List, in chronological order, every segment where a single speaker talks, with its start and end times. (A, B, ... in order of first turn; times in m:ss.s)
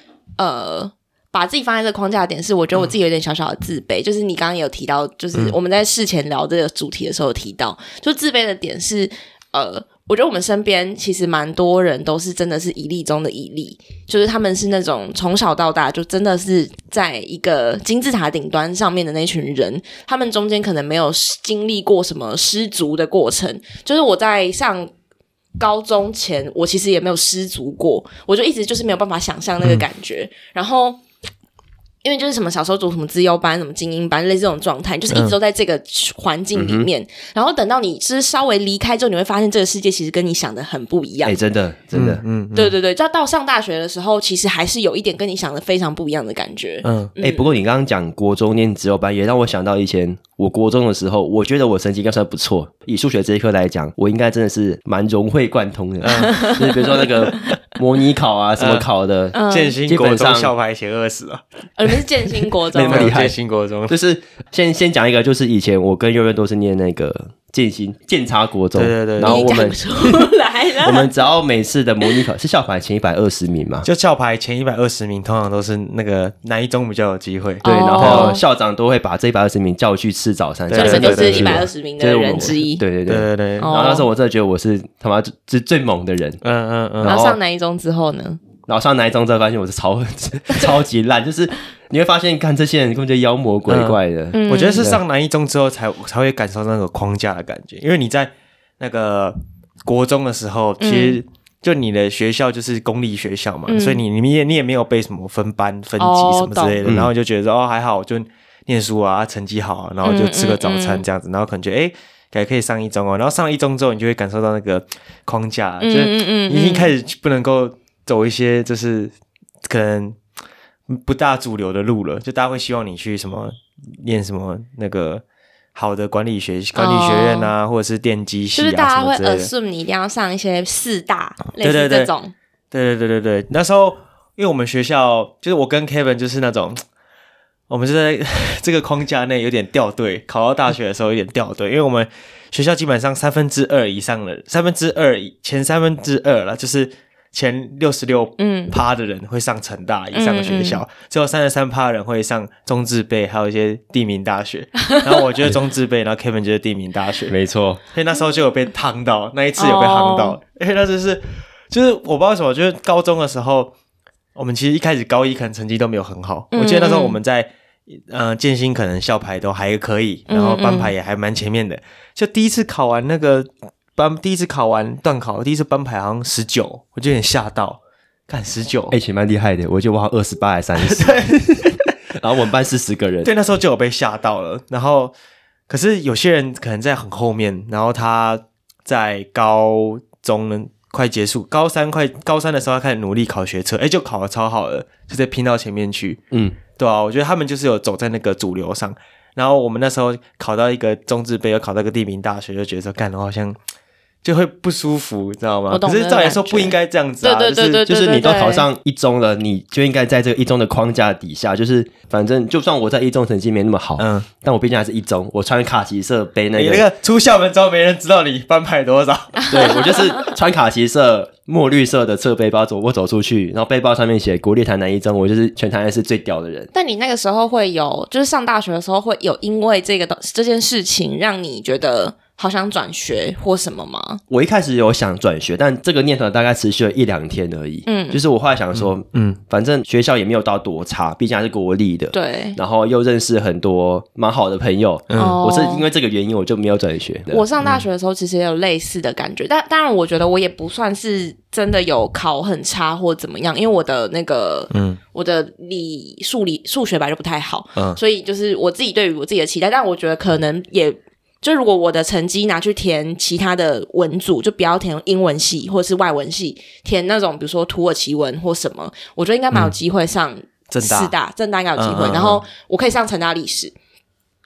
0:00.4-0:24.9 A
0:25.6-0:31.0 A
0:32.0-0:41.4 A
0:36.5-0:36.9 B
0:41.2-0:42.2 B
0:41.9-0:42.7 C
0:42.5-0:47.5 A
0:46.8-0:47.1 C
0:47.2-1:00.5 B
0:56.0-0:56.6 C
0:56.1-0:57.4 A
0:58.6-0:58.8 C
0:59.3-0:59.8 A
0:59.5-1:01.4 C
1:01.8-1:03.2 A
1:02.7-1:03.3 B
1:02.8-1:03.9 C
1:03.9-1:10.3 B
1:08.7-1:09.6 C
1:09.2-1:11.1 A
1:10.8-1:13.8 B
1:13.8-1:18.3 C
1:17.6-1:18.4 A
1:17.6-1:26.4 B
1:20.7-1:21.7 C
1:20.7-1:22.8 A
1:23.1-1:23.7 C
1:23.6-1:24.1 A
1:26.4-1:27.2 C
1:27.0-1:27.4 B
1:27.0-1:28.4 A
1:28.7-1:35.0 B
1:33.7-1:59.1 C
1:34.3-1:34.9 A
1:40.8-1:41.2 A
1:43.7-1:44.0 A
1:46.0-1:46.8 A
1:46.8-1:47.1 B
1:50.0-1:51.0 A
1:55.8-1:56.9 A
1:59.6-2:00.2 C
2:00.9-2:05.2 C
2:05.7-2:09.5 C
2:06.8-2:07.5 A
2:08.6-2:12.3 A
2:11.6-2:12.1 C
2:12.7-2:16.8 C
2:17.7-2:37.4 C
2:28.4-2:28.8 A
2:30.1-2:30.8 A
2:37.3-2:37.8 B
2:37.9-2:43.7 C
2:39.6-2:40.4 A
2:44.3-2:59.0 C
2:46.5-2:47.2 A
2:50.3-2:50.9 A
2:58.9-3:03.3 B
3:00.8-3:01.9 C
3:03.2-3:05.1 C
3:05.7-3:16.2 C
3:16.3-3:16.6 B
3:16.8-3:23.6 C
3:24.2-3:27.8 C
3:25.7-3:28.7 A
3:27.8-3:36.8 B
3:34.0-3:34.3 C
3:36.6-3:39.5 C
3:39.3-3:40.3 A
3:39.5-3:46.7 B
3:46.7-3:54.2 A
3:54.3-4:07.4 B
3:57.8-3:58.2 A
3:58.7-3:59.4 C
4:02.1-4:02.6 A
4:05.1-4:05.4 C
4:05.2-4:05.8 A
4:07.3-4:33.7 A
4:14.7-4:15.0 C
4:30.7-4:31.1 C
4:31.8-4:32.4 C